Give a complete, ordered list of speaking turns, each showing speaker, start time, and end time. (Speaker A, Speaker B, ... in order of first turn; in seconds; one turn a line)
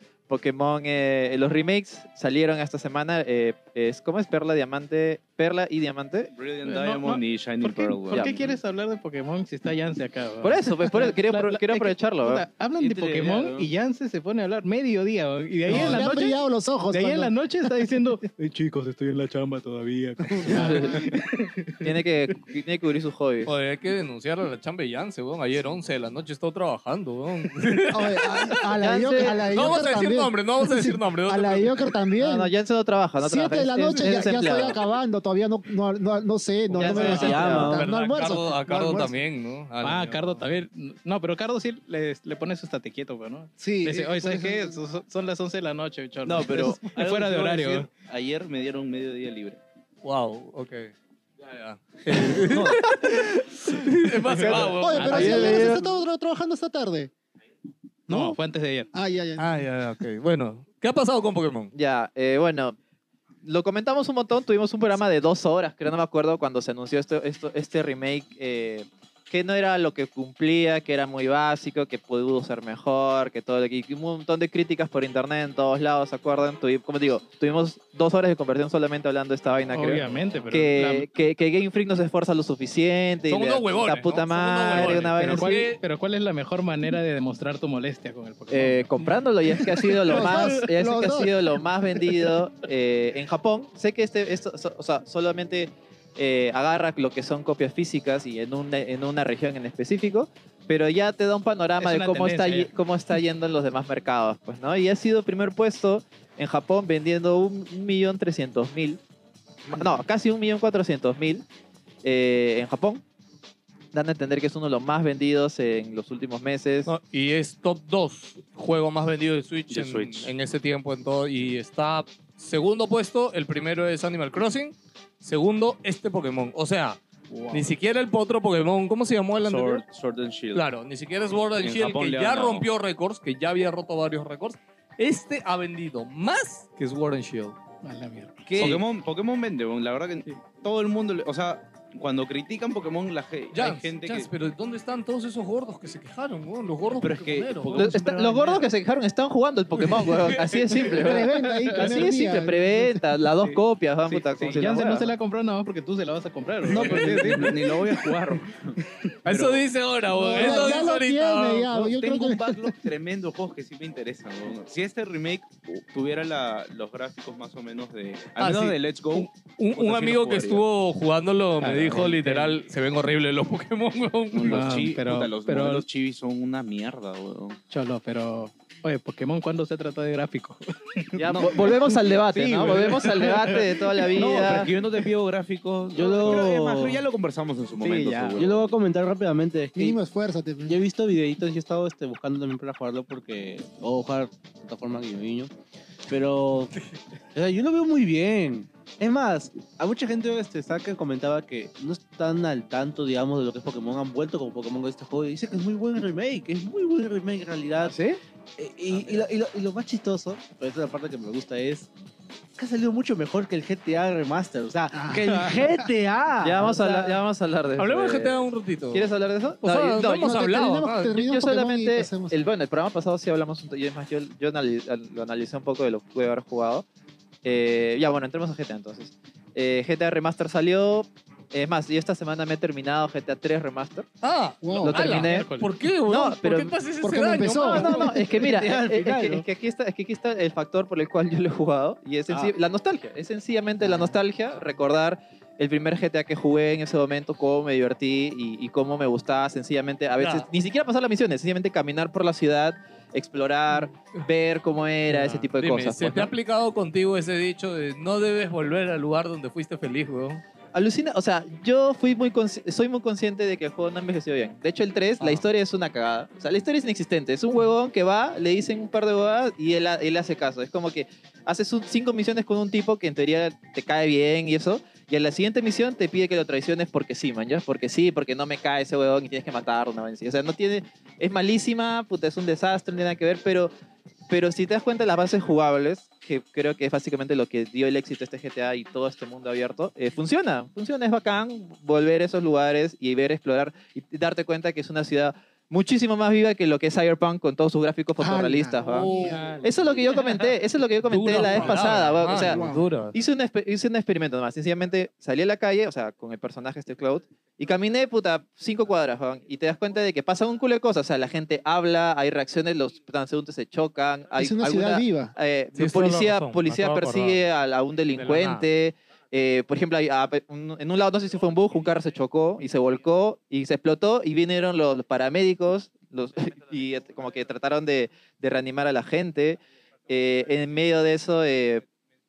Speaker A: 0.3-6.3
Speaker B: 6.3-8.6
Speaker C: 6.6-16.4
Speaker A: 8.1-8.4
Speaker A: 10.4-12.4
Speaker B: 12.8-13.7
Speaker D: 15.7-17.3
Speaker C: 16.9-21.9
Speaker D: 20.3-21.0
Speaker A: 20.5-20.9
Speaker A: 21.8-23.5
Speaker E: 23.4-28.7
Speaker D: 27.9-32.5
Speaker A: 28.8-29.4
Speaker E: 29.3-31.9
Speaker A: 32.2-34.8
Speaker D: 33.2-39.1
Speaker A: 36.8-37.7
Speaker F: 36.9-37.9
Speaker E: 37.6-40.4
Speaker C: 39.8-47.9
Speaker D: 43.6-44.8
Speaker B: 46.2-49.6
Speaker E: 50.0-55.9
Speaker B: 52.5-52.8
Speaker C: 54.4-55.7
Speaker A: 54.5-55.6
Speaker D: 54.8-57.1
Speaker C: 58.1-58.9
Speaker D: 58.1-58.3
Speaker D: 58.9-59.6
Speaker E: 59.4-61.7
Speaker A: 61.7-62.8
Speaker A: 63.4-85.6
Speaker C: 79.7-81.1
Speaker E: 83.3-85.8
Speaker C: 84.8-90.4
Speaker A: 88.5-109.0
Speaker D: 90.1-91.3
Speaker C: 101.8-102.7
Speaker A: 109.7-111.4
Speaker A: 112.0-113.0
Speaker A: 113.9-116.9
Speaker E: 116.8-127.0
Speaker B: 119.7-120.3
Speaker B: 127.3-127.7
Speaker E: 127.5-129.8
Speaker B: 129.4-130.6
Speaker E: 130.5-137.6
Speaker B: 131.6-132.7
Speaker C: 137.8-138.7
Speaker E: 138.5-138.8
Speaker B: 138.5-144.3
Speaker E: 143.5-147.8
Speaker B: 147.0-148.6
Speaker A: 147.8-155.1
Speaker E: 150.1-151.0
Speaker D: 150.9-152.9
Speaker C: 153.4-158.3
Speaker B: 156.6-159.7
Speaker E: 156.7-157.3
Speaker E: 159.2-161.7
Speaker D: 160.1-162.7
Speaker B: 160.4-160.8
Speaker B: 161.7-170.6
Speaker E: 168.4-174.6
Speaker C: 171.6-172.6
Speaker B: 174.3-177.6
Speaker C: 174.4-175.8
Speaker C: 177.7-183.8
Speaker A: 181.1-184.7
Speaker B: 184.1-188.7
Speaker F: 185.9-187.0
Speaker C: 187.8-188.4
Speaker F: 188.3-190.0
Speaker D: 189.7-190.8
Speaker F: 190.7-195.5
Speaker F: 196.1-196.8
Speaker F: 197.3-208.0
Speaker A: 207.9-208.2
Speaker F: 208.6-211.9
Speaker F: 212.6-217.2
Speaker D: 214.9-215.7
Speaker A: 216.4-218.4
Speaker E: 217.8-219.1
Speaker A: 218.9-220.3
Speaker E: 219.6-221.2
Speaker D: 220.1-222.5
Speaker A: 221.2-226.8
Speaker A: 227.4-234.1
Speaker E: 234.2-238.1
Speaker D: 234.6-235.0
Speaker A: 234.8-235.5
Speaker C: 234.9-235.7
Speaker A: 236.1-236.8
Speaker D: 237.0-238.0
Speaker A: 237.6-256.3
Speaker F: 238.3-239.4
Speaker E: 250.2-250.5
Speaker E: 255.1-260.4
Speaker A: 260.7-283.7
Speaker A: 284.3-331.8
Speaker D: 298.2-299.5
Speaker E: 298.8-299.5
Speaker C: 299.2-300.3
Speaker E: 301.1-303.1
Speaker D: 302.2-302.8
Speaker D: 314.4-315.3
Speaker E: 315.8-317.4
Speaker E: 318.1-318.6